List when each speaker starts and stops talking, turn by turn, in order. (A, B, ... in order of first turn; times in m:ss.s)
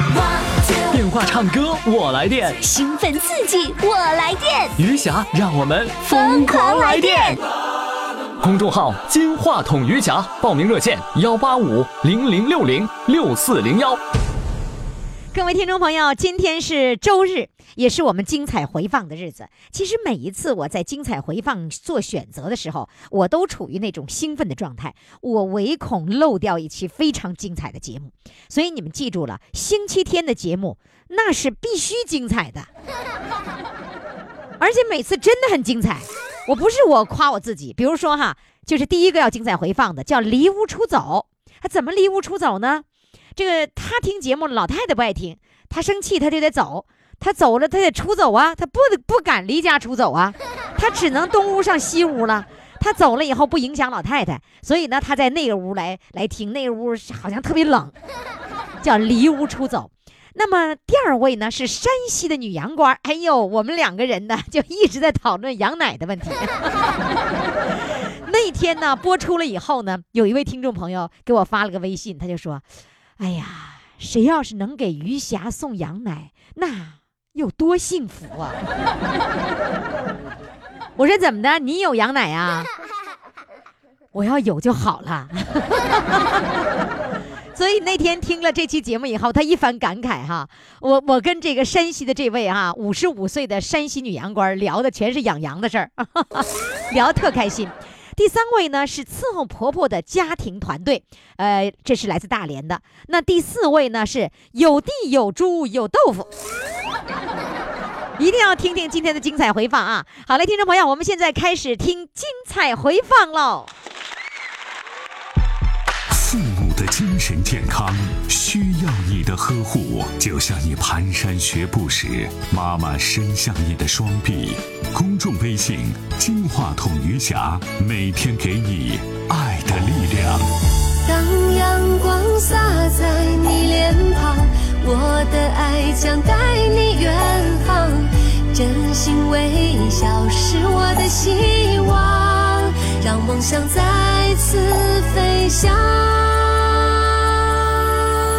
0:00.9-0:02.6 A
0:02.6-0:04.7 B
0:04.8-0:07.4 A
0:06.1-0:07.4 B
0:08.4-0:14.0 A
0:15.3-0:32.7 C
0:34.6-0:42.8 C
0:43.4-0:57.9 C
0:58.8-1:06.9 C
1:08.2-1:12.6 C
1:13.2-1:18.6 C
1:21.0-1:22.7 C
1:24.1-1:26.4 C
1:27.5-1:46.3 C
1:48.2-1:53.7 C
1:56.1-2:10.5 D
2:11.0-2:27.2 E